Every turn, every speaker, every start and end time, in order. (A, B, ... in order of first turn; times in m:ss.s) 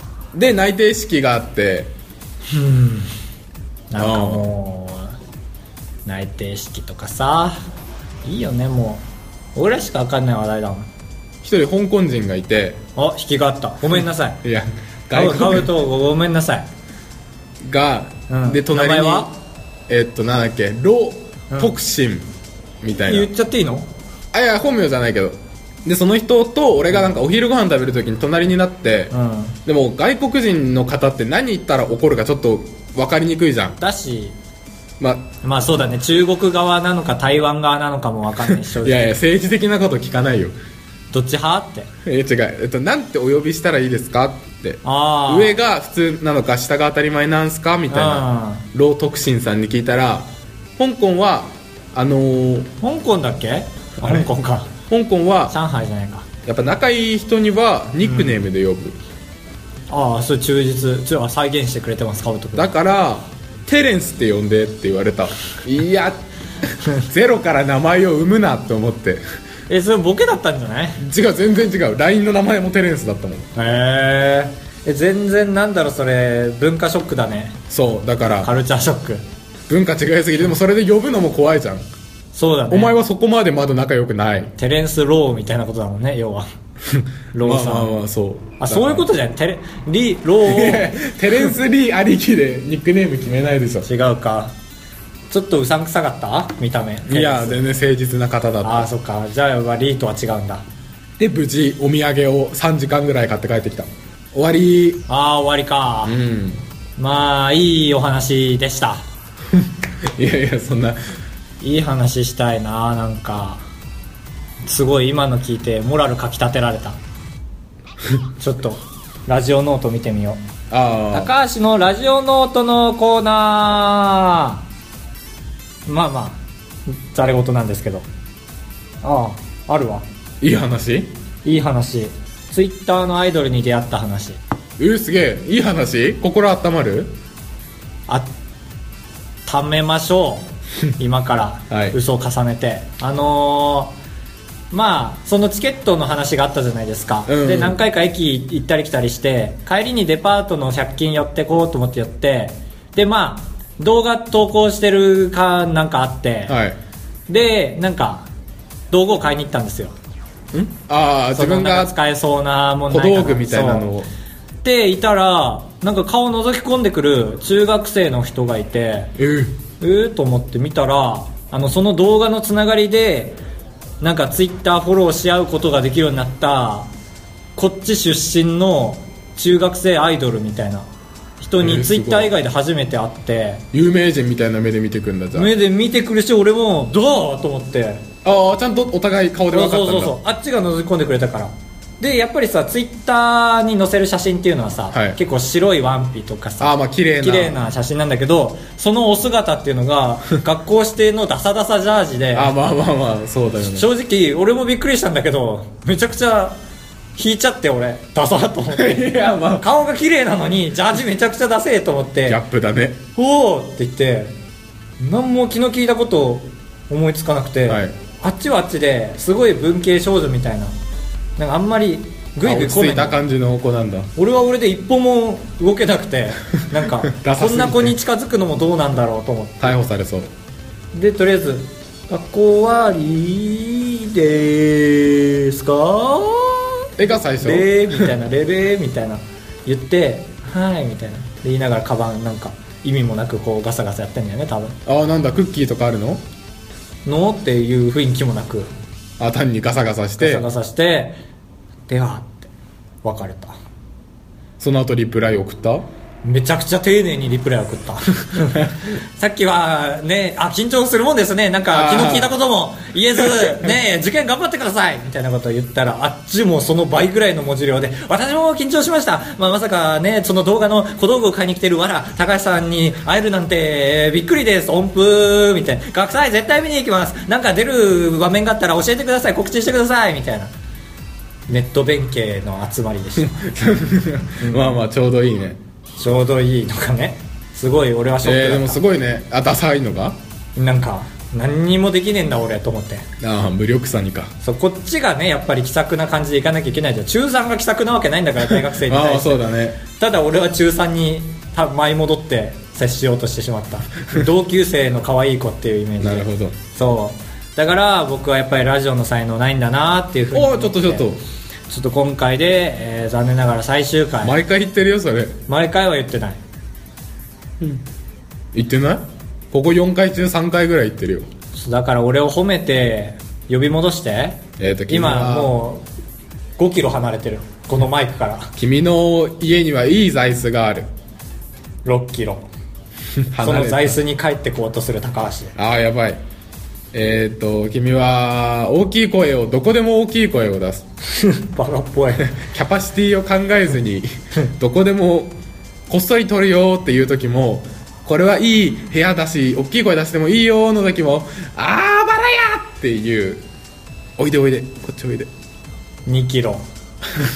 0:00.3-0:01.9 A
0:02.5-0:03.1 B
0:03.9-0:05.2 B
0:04.0-0:04.5 A
0:06.0-0:07.6 B
0:08.2-0:09.0 B
0:09.5-0:10.9 B
0:11.4-0:12.8 A
0:13.0-0:14.4 B
0:14.4-0:15.7 A
0:15.1-0:16.7 B
0:17.6-0:19.3 A
0:18.3-0:19.3 B
0:19.9-0:22.3 A
0:22.8-0:23.3 A
0:23.0-0:23.9 B
0:24.3-0:29.1 A
0:29.1-0:29.6 B
0:29.6-0:33.8 A
0:33.8-0:34.4 B
0:35.0-0:35.3 A
0:35.4-0:39.1 B
0:38.7-0:40.5 A
0:41.1-0:41.9 B
0:42.0-0:52.7 A
0:44.8-0:45.5 B
0:47.9-0:48.7 B
0:52.8-0:54.7 B
0:54.0-0:54.3 A
0:54.9-0:55.5 A
0:55.5-0:56.3 B
0:56.4-0:59.0 A
0:58.0-0:58.4 B
0:59.9-1:02.7 B
1:02.6-1:06.2 A
1:06.9-1:09.2 A
1:09.7-1:11.0 B
1:11.0-1:13.5 A
1:13.6-1:17.6 B
1:17.7-1:18.5 A
1:18.4-1:19.2 B
1:19.7-1:21.8 A
1:22.3-1:22.9 B
1:22.7-1:24.5 A
1:24.6-1:26.5 B
1:26.9-1:29.1 A
1:27.3-1:27.9 B
1:28.6-1:31.5 B
1:30.4-1:33.9 A
1:33.8-1:34.6 B
1:35.3-1:37.6 B
1:37.1-1:38.9 A
1:38.6-1:40.6 B
1:41.2-1:45.0 A
1:45.1-1:46.2 B
1:46.0-1:46.6 A
1:47.0-1:49.0 B
1:50.1-1:51.0 A
1:51.6-1:53.6 B
1:54.6-1:57.0 B
1:58.4-2:00.4 B
2:00.7-2:01.3 A
2:01.1-2:04.6 B
2:05.9-2:08.1 B
2:09.0-2:10.0 B
2:10.4-2:11.1 A
2:11.4-2:14.4 B
2:14.8-2:17.1 A
2:19.4-2:24.0 B
2:21.7-2:22.0 A
2:24.7-2:36.6 B
2:27.3-2:27.8 A
2:36.5-2:36.8 A
2:37.3-2:38.3 B
2:38.9-2:39.9 B
2:40.5-2:41.9 A
2:41.3-2:43.9 B
2:42.9-2:44.1 A
2:44.6-2:49.1 B
2:49.2-2:49.5 A
2:49.8-2:53.4 B
2:54.0-2:56.9 B
2:57.6-3:00.9 B
3:01.4-3:03.6 B
3:01.6-3:02.3 A
3:03.7-3:05.5 A
3:05.3-3:08.0 B
3:08.2-3:10.1 A
3:09.5-3:22.5 B
3:14.9-3:15.2 A
3:16.6-3:17.6 A
3:22.3-3:23.9 A
3:23.6-3:26.6 B
3:27.2-3:32.4 B
3:28.7-3:29.6 A
3:32.2-3:33.0 A
3:33.2-3:34.3 B
3:35.0-3:40.7 B
3:37.7-3:37.9 A
3:41.4-3:43.2 B
3:42.4-3:44.1 A
3:44.2-3:49.8 B
3:46.8-3:47.9 A
3:49.6-3:50.3 A
3:50.9-4:04.8 B
3:57.0-3:58.1 A
4:04.8-4:06.2 A
4:07.0-4:08.7 B
4:09.2-4:10.5 A
4:10.2-4:11.2 B
4:11.9-4:12.5 B
4:13.0-4:13.5 B
4:14.6-4:15.8 A
4:16.2-4:40.5 B
4:21.7-4:22.4 A
4:23.2-4:23.7 A
4:41.5-4:43.4 B
4:43.2-4:45.6 A
4:44.4-4:44.7 B
4:46.0-4:48.8 B
4:48.2-4:50.2 A
4:50.6-4:53.0 B
4:53.2-4:54.3 A
4:54.4-5:11.1 B
4:58.5-4:59.8 A
5:06.0-5:06.6 A
5:10.3-5:11.2 A
5:11.7-5:14.4 B
5:14.2-5:15.4 A
5:15.5-5:16.4 B
5:18.5-5:21.3 A
5:21.5-5:25.8 B
5:24.6-5:25.6 A
5:26.6-5:28.5 B
5:28.6-5:30.9 A
5:31.8-5:32.5 B
5:33.3-5:34.0 A
5:33.4-5:35.5 B
5:35.6-5:36.2 A
5:36.9-5:40.8 A
5:41.1-5:42.3 B
5:42.2-5:45.4 A
5:45.9-5:53.4 A
5:54.2-5:55.3 A
5:56.0-5:56.6 B